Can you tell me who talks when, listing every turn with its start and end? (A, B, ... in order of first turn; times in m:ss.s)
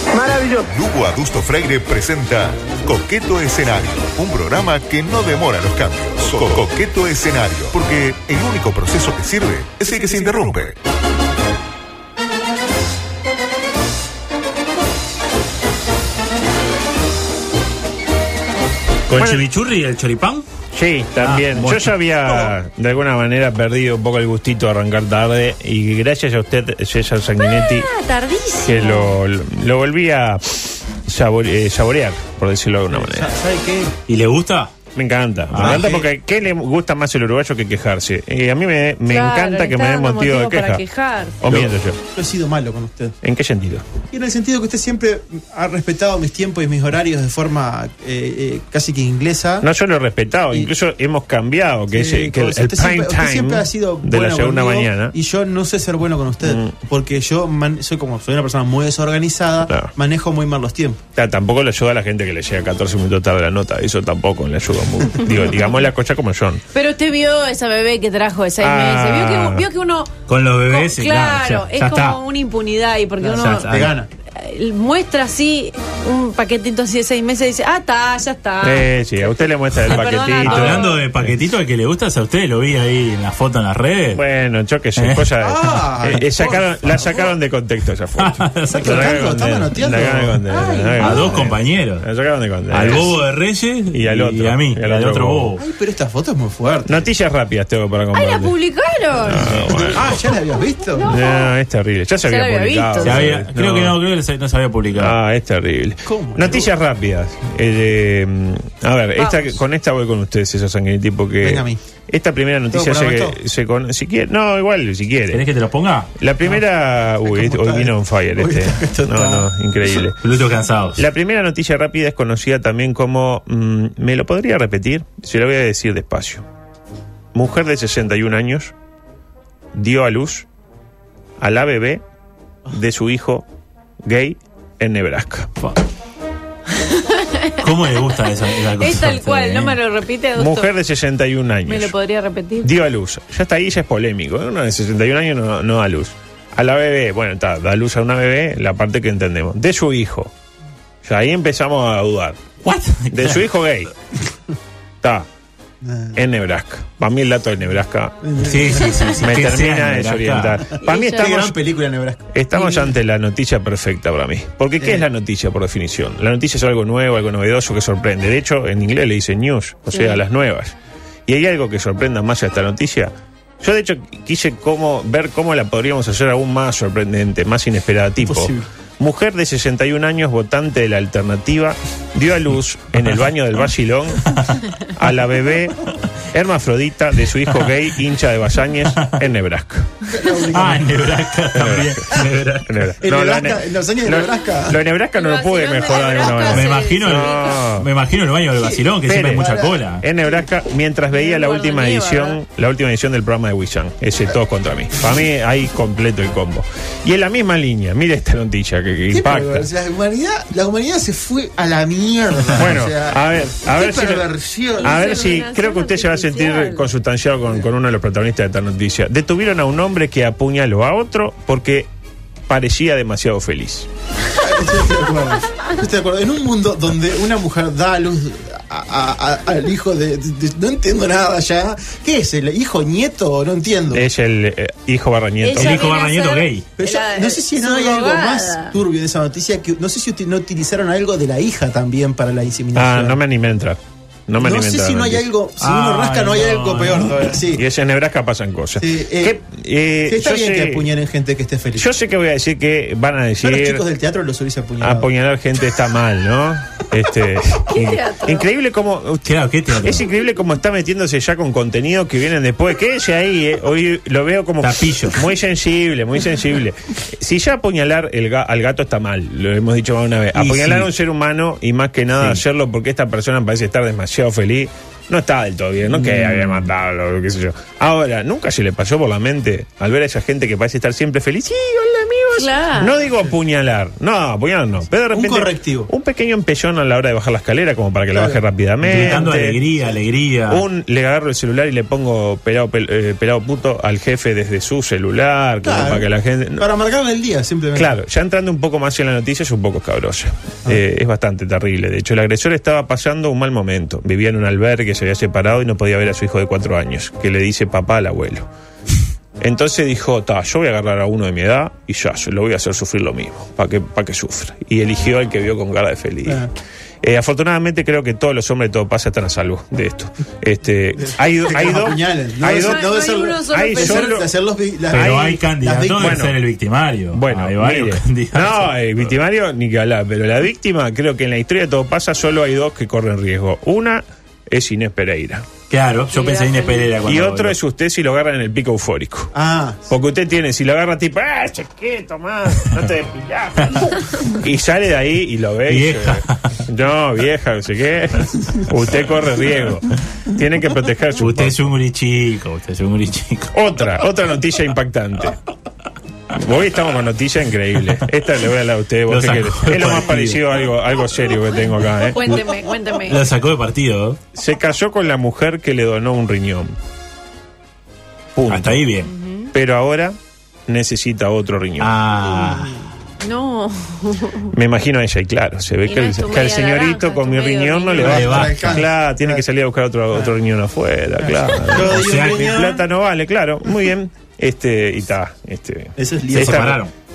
0:00.6-0:10.8 A
0:19.1-0:20.4 B
0:19.1-0:19.4 C
0:20.7-0:27.9 C
0:21.2-0:22.5 B
0:27.4-0:29.2 D
0:28.6-0:33.4 C
0:32.9-0:33.9 E
0:34.1-0:34.8 B
0:35.0-0:40.8 C
0:35.5-0:35.9 B
0:35.6-0:36.1 E
0:39.1-0:41.4 D
0:41.4-0:42.0 C
0:41.5-0:43.2 E
0:43.2-0:43.9 C
0:44.1-0:49.7 E
0:49.6-0:55.2 C
0:51.9-1:01.0 E
0:56.4-0:56.7 C
1:01.2-1:06.6 C
1:06.7-1:10.1 D
1:08.6-1:09.7 C
1:10.3-1:12.2 B
1:10.7-1:13.7 D
1:13.2-1:14.1 E
1:13.3-1:13.9 B
1:14.4-1:18.9 D
1:18.6-1:21.4 C
1:19.8-1:21.0 D
1:19.9-1:24.2 B
1:24.1-1:31.2 C
1:25.0-1:25.8 B
1:25.4-1:27.3 E
1:28.2-1:29.2 B
1:28.7-1:31.6 E
1:30.5-1:31.1 D
1:31.0-1:32.1 B
1:32.0-1:33.2 C
1:32.7-1:35.6 B
1:33.9-1:35.5 C
1:35.6-1:37.1 E
1:36.9-1:38.5 C
1:38.1-1:39.5 D
1:39.3-1:40.2 C
1:39.3-1:39.8 B
1:39.7-1:41.1 E
1:41.0-1:44.0 C
1:42.2-1:43.3 D
1:43.0-1:45.2 B
1:45.0-1:55.5 C
1:46.0-1:46.7 E
1:49.2-1:49.6 D
1:51.4-1:51.8 E
1:52.7-1:53.4 E
1:55.3-1:56.1 B
1:56.2-2:00.2 C
1:57.2-1:59.9 E
2:00.2-2:01.0 B
2:01.0-2:06.5 C
2:07.3-2:08.7 C
2:09.7-2:10.5 C
2:11.4-2:12.0 C
2:12.7-2:13.4 C
2:14.0-2:15.5 C
2:16.9-2:18.1 D
2:17.6-2:19.8 B
2:18.8-2:20.7 D
2:20.4-2:21.9 C
2:21.7-2:22.7 D
2:22.6-2:30.3 C
2:31.0-2:32.4 C
2:32.6-2:33.5 B
2:33.1-2:33.9 C
2:35.0-2:35.3 C
2:35.8-2:36.2 E
2:36.2-2:38.2 C
2:38.2-2:38.8 E
2:38.4-2:40.6 B
2:39.2-2:41.6 C
2:40.8-2:41.4 D
2:41.1-2:42.3 E
2:42.3-2:50.8 C
2:42.5-2:42.9 D
2:44.8-2:45.1 E
2:49.9-2:50.2 D
2:51.3-3:04.2 C
2:58.2-2:58.7 E
3:04.3-3:04.6 B
3:05.0-3:10.0 C
3:08.9-3:09.2 B
3:10.1-3:10.9 E
3:10.4-3:12.9 B
3:11.5-3:17.9 C
3:13.0-3:14.8 E
3:15.2-3:17.6 D
3:16.5-3:20.0 B
3:18.5-3:20.4 E
3:19.0-3:19.4 C
3:20.0-3:29.7 C
3:21.1-3:22.4 D
3:29.1-3:35.1 E
3:32.5-3:34.3 C
3:34.8-3:36.9 D
3:34.8-3:41.9 C
3:42.5-3:43.9 C
3:44.4-3:54.1 E
3:53.9-3:55.6 C
3:55.4-3:58.8 D
3:55.5-3:56.7 B
3:56.8-4:03.2 E
4:02.8-4:05.3 C
4:04.4-4:07.6 E
4:05.6-4:07.4 B
4:07.6-4:10.9 C
4:08.8-4:09.4 E
4:10.1-4:11.9 E
4:11.8-4:13.8 C
4:13.4-4:15.1 E
4:14.8-4:49.6 C
4:17.7-4:18.5 D
4:19.2-4:20.0 B
4:24.6-4:25.2 B
4:30.3-4:30.9 B
4:32.2-4:32.4 B
4:35.9-4:36.7 B
4:42.4-4:42.9 D
4:45.1-4:45.9 E
4:48.1-4:49.3 E
4:48.8-4:50.6 B
4:50.5-4:56.7 C
4:55.6-4:57.9 E
4:57.8-5:08.5 C
5:09.4-5:16.4 C
5:16.2-5:16.5 E
5:17.0-5:22.9 C
5:21.0-5:26.0 E
5:22.4-5:24.2 D
5:23.5-5:24.3 C
5:24.9-5:29.2 B
5:24.9-5:25.4 C
5:26.0-5:26.4 C
5:27.1-5:35.5 C
5:35.7-5:37.6 B
5:36.1-5:37.0 D
5:37.0-5:39.3 C
5:39.3-5:39.9 E
5:39.9-5:51.7 C
5:45.7-5:46.6 B
5:51.2-5:53.5 B
5:53.5-5:55.4 C
5:56.3-6:02.2 C
5:59.1-6:00.5 B
6:02.1-6:03.2 D
6:03.1-6:04.2 B
6:04.4-6:06.7 C
6:08.4-6:08.9 C
6:08.5-6:09.1 B
6:09.1-6:09.5 D
6:09.5-6:10.2 C
6:10.7-6:11.9 C
6:11.8-6:12.8 B
6:13.2-6:14.5 D
6:14.5-6:26.6 C
6:15.9-6:18.3 D
6:18.0-6:19.4 E
6:18.0-6:18.9 B
6:21.7-6:22.6 B
6:21.7-6:22.8 E
6:26.0-6:26.8 E
6:26.4-6:26.9 B